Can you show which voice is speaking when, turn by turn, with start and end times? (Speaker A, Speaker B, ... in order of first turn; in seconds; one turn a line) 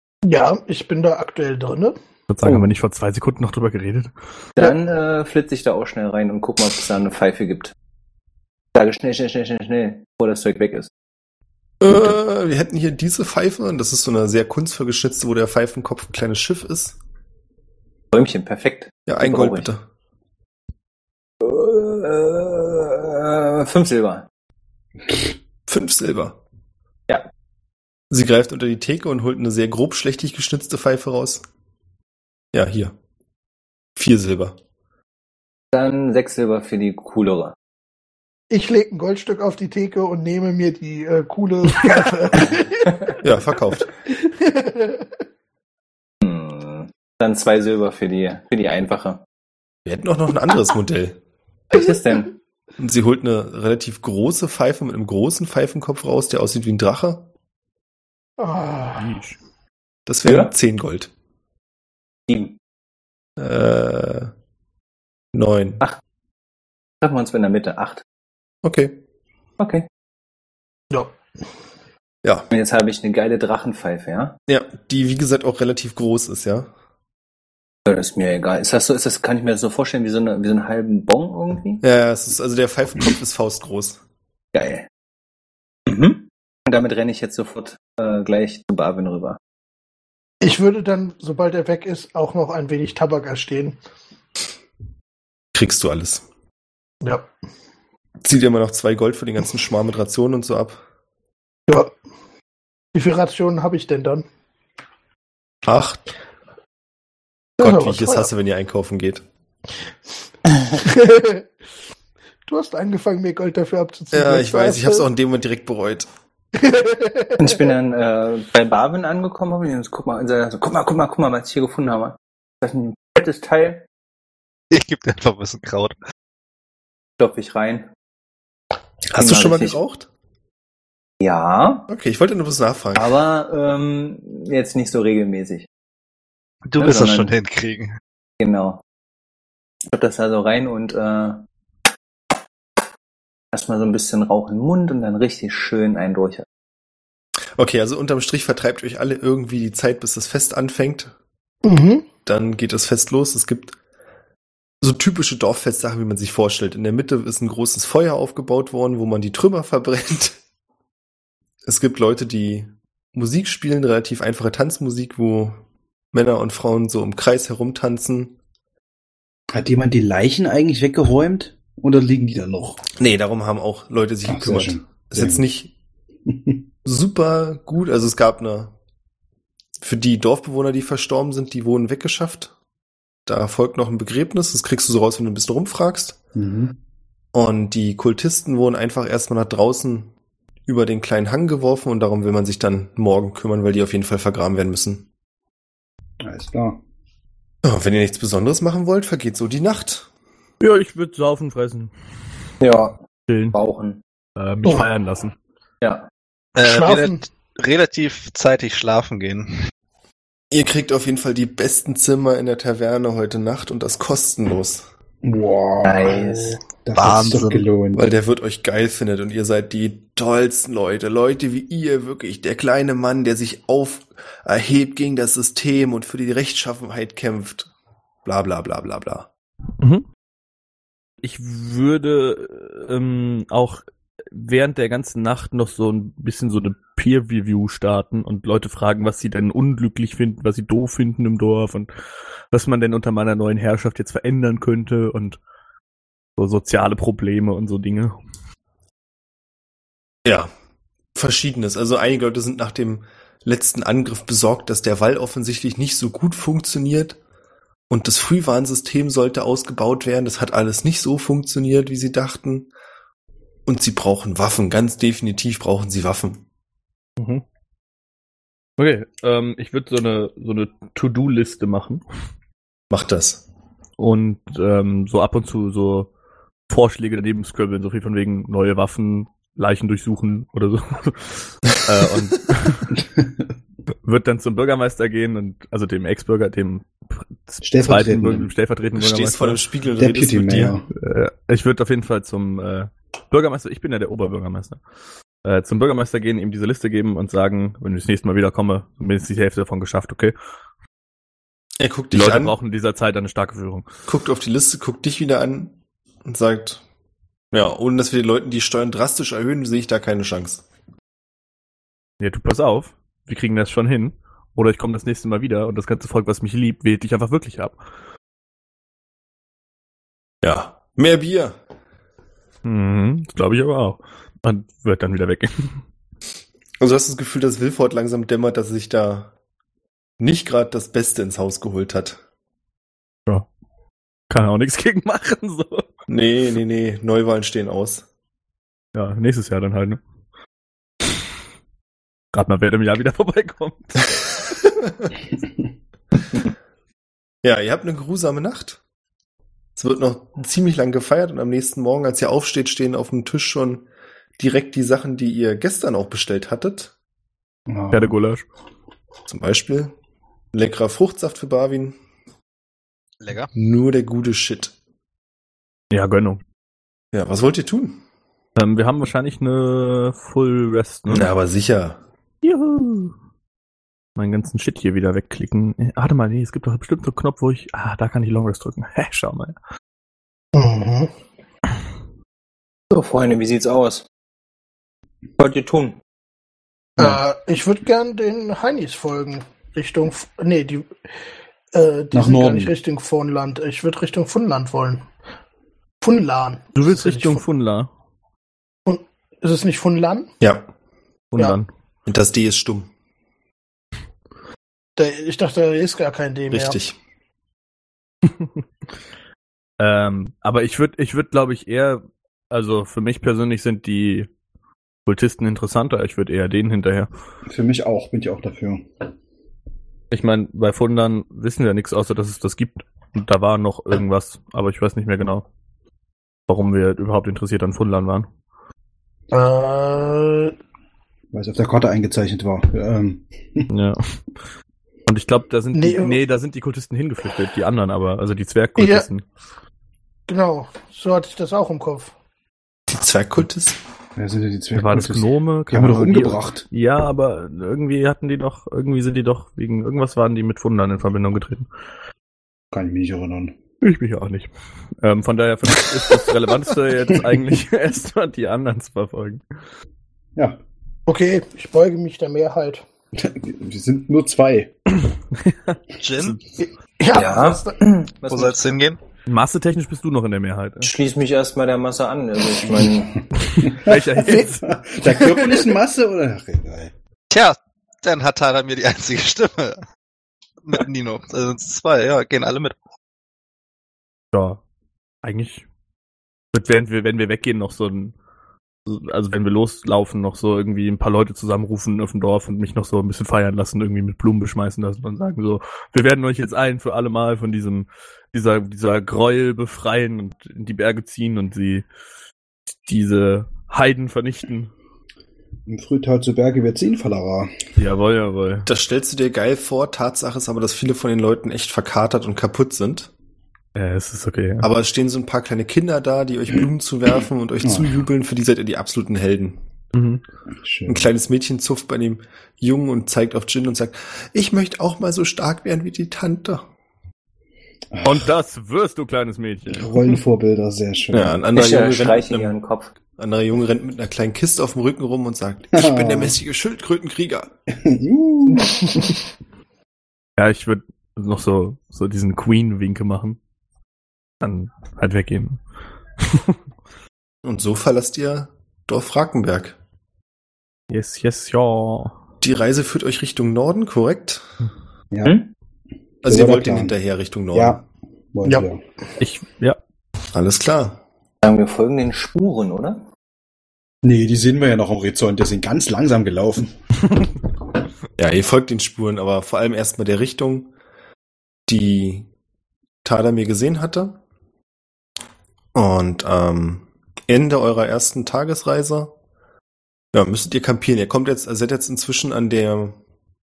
Speaker A: 0.2-1.9
Speaker B: 2.3-4.1
Speaker C: 4.5-7.7
Speaker C: 8.7-10.9
Speaker D: 11.8-17.0
Speaker C: 18.1-19.7
Speaker D: 19.1-19.8
Speaker C: 21.4-24.3
Speaker D: 25.7-26.4
Speaker D: 28.1-31.4
Speaker D: 32.5-32.9
Speaker D: 34.0-34.6
Speaker C: 35.7-37.5
Speaker A: 38.5-43.2
Speaker D: 43.2-43.9
Speaker A: 44.2-45.1
Speaker C: 46.2-49.2
Speaker D: 49.8-51.2
Speaker C: 51.7-52.3
Speaker D: 52.8-57.3
Speaker A: 58.4-59.1
Speaker B: 59.0-59.4
Speaker D: 60.1-61.1
Speaker C: 62.3-62.6
Speaker D: 63.4-64.3
Speaker D: 65.3-65.8
Speaker C: 67.0-68.0
Speaker D: 68.6-69.0
Speaker C: 69.6-69.9
Speaker C: 72.5-74.3
Speaker D: 74.5-76.7
Speaker C: 77.8-81.8
Speaker D: 81.8-84.0
Speaker C: 84.5-84.9
Speaker C: 85.9-89.4
Speaker A: 90.4-93.8
Speaker D: 95.5-96.2
Speaker D: 98.2-100.8
Speaker A: 102.9-104.2
Speaker D: 105.6-106.0
Speaker D: 107.6-109.2
Speaker A: 107.6-108.3
Speaker A: 110.8-111.5
Speaker A: 112.5-115.0
Speaker D: 114.1-116.1
Speaker A: 116.6-117.3
Speaker C: 117.3-123.8
Speaker E: 124.7-125.9
Speaker C: 127.2-127.9
Speaker D: 129.1-130.1
Speaker C: 129.1-129.8
Speaker C: 131.2-131.9
Speaker D: 131.9-133.2
Speaker C: 132.9-135.7
Speaker E: 136.7-137.9
Speaker C: 136.8-137.3
Speaker C: 138.4-138.8
Speaker C: 139.9-141.4
Speaker C: 143.5-146.4
Speaker D: 147.6-151.1
Speaker A: 151.6-152.1
Speaker D: 152.2-153.8
Speaker D: 154.8-160.4
Speaker D: 161.6-165.6
Speaker D: 166.1-168.3
Speaker F: 169.5-172.8
Speaker D: 173.0-175.7
Speaker F: 174.3-175.5
Speaker F: 176.3-176.7
Speaker D: 176.8-178.7
Speaker D: 179.8-182.5
Speaker D: 183.2-186.2
Speaker F: 186.3-186.8
Speaker D: 187.3-190.1
Speaker D: 190.7-195.1
Speaker F: 196.2-196.8
Speaker D: 197.6-200.1
Speaker B: 200.6-201.9
Speaker C: 202.6-203.0
Speaker B: 203.3-203.6
Speaker C: 203.5-204.0
Speaker B: 204.4-205.3
Speaker C: 205.8-206.1
Speaker E: 206.6-209.5
Speaker A: 206.6-207.2
Speaker D: 210.5-214.9
Speaker F: 215.2-218.0
Speaker C: 215.8-216.6
Speaker E: 217.0-217.6
Speaker D: 217.9-227.7
Speaker D: 228.2-229.3
Speaker B: 229.8-230.1
Speaker B: 231.2-241.9
Speaker B: 242.5-245.4
Speaker B: 246.4-248.1
Speaker D: 250.2-250.5
Speaker D: 251.1-257.2
Speaker D: 257.9-262.7
Speaker D: 263.7-266.4
Speaker B: 267.2-267.4
Speaker B: 268.8-272.0
Speaker D: 272.9-273.4
Speaker B: 274.0-276.1
Speaker B: 276.7-282.9
Speaker F: 282.9-283.3
Speaker B: 284.0-289.6
Speaker F: 287.6-288.5
Speaker D: 288.9-290.8
Speaker F: 290.0-290.9
Speaker B: 290.9-294.8
Speaker B: 295.4-300.3
Speaker D: 301.8-302.5
Speaker B: 302.1-303.9
Speaker D: 304.1-306.8
Speaker D: 307.5-310.6
Speaker B: 312.2-317.8
Speaker D: 320.4-321.6
Speaker B: 322.6-325.8
Speaker D: 326.8-329.3
Speaker D: 330.2-332.2
Speaker B: 334.3-335.9
Speaker D: 336.1-338.0
Speaker B: 338.9-340.0
Speaker B: 342.3-344.4
Speaker D: 347.4-348.8
Speaker D: 349.8-353.9
Speaker D: 354.4-356.9
Speaker F: 357.7-358.1
Speaker B: 357.9-358.4
Speaker D: 359.3-359.9
Speaker D: 360.5-361.9
Speaker E: 363.2-363.5
Speaker D: 363.5-364.7
Speaker B: 365.9-366.4
Speaker D: 367.1-368.0
Speaker B: 368.6-371.3
Speaker D: 371.1-372.0
Speaker B: 372.4-373.1
Speaker B: 374.2-379.5
Speaker A: 380.5-381.1
Speaker C: 382.9-384.1
Speaker C: 385.4-386.0
Speaker A: 387.0-390.9
Speaker A: 391.7-395.0
Speaker F: 392.1-392.7
Speaker A: 396.0-397.4
Speaker B: 396.8-397.9
Speaker A: 398.9-400.3
Speaker D: 400.4-400.6
Speaker B: 401.3-401.7
Speaker D: 402.1-402.9
Speaker A: 405.0-406.8
Speaker D: 406.5-407.0
Speaker B: 409.8-414.3
Speaker B: 415.1-417.1
Speaker F: 417.5-418.9
Speaker B: 420.1-425.4
Speaker B: 426.5-428.3
Speaker A: 429.3-430.5
Speaker F: 431.3-433.7
Speaker B: 433.7-434.2
Speaker B: 435.1-439.2
Speaker A: 435.7-436.2
Speaker A: 438.8-439.1
Speaker A: 440.3-442.1
Speaker D: 442.9-443.8
Speaker F: 444.1-446.7
Speaker B: 444.7-451.7
Speaker F: 452.7-453.6
Speaker B: 453.8-454.5
Speaker B: 455.0-459.4
Speaker A: 461.1-462.8
Speaker F: 463.1-464.7
Speaker B: 465.3-466.4
Speaker E: 466.0-466.4
Speaker A: 466.6-467.8
Speaker C: 467.1-468.7
Speaker E: 468.3-469.0
Speaker B: 469.2-470.9
Speaker C: 470.8-473.2
Speaker F: 472.7-476.9
Speaker B: 473.4-474.6
Speaker A: 475.1-475.7
Speaker E: 477.3-479.8
Speaker E: 480.6-482.8
Speaker B: 484.3-484.6
Speaker B: 485.2-485.6
Speaker B: 486.5-488.1
Speaker B: 488.9-501.8
Speaker B: 502.9-504.7
Speaker F: 505.7-507.5
Speaker B: 507.8-508.7
Speaker D: 508.6-513.1
Speaker B: 513.8-514.7
Speaker D: 514.6-519.6
Speaker F: 517.6-517.9
Speaker B: 519.9-520.2
Speaker F: 520.5-521.1
Speaker D: 520.9-526.7
Speaker F: 527.9-528.3
Speaker B: 528.0-530.0
Speaker F: 529.7-531.3
Speaker D: 531.1-532.5
Speaker C: 531.5-532.9
Speaker D: 533.2-537.5
Speaker F: 535.7-536.3
Speaker F: 537.7-539.0
Speaker B: 540.4-543.4
Speaker B: 544.4-545.6
Speaker B: 546.2-546.6
Speaker D: 547.4-549.8
Speaker B: 550.9-552.1
Speaker D: 552.4-554.4
Speaker F: 555.1-555.4
Speaker C: 555.2-555.5
Speaker D: 556.2-557.8
Speaker F: 556.2-556.9
Speaker F: 557.5-557.8
Speaker F: 558.3-558.8
Speaker B: 559.2-559.8
Speaker D: 560.3-561.0
Speaker C: 561.4-563.0
Speaker F: 564.0-566.7
Speaker D: 568.2-570.7
Speaker D: 571.7-572.3
Speaker D: 573.0-574.2
Speaker D: 575.7-579.1
Speaker D: 580.1-583.0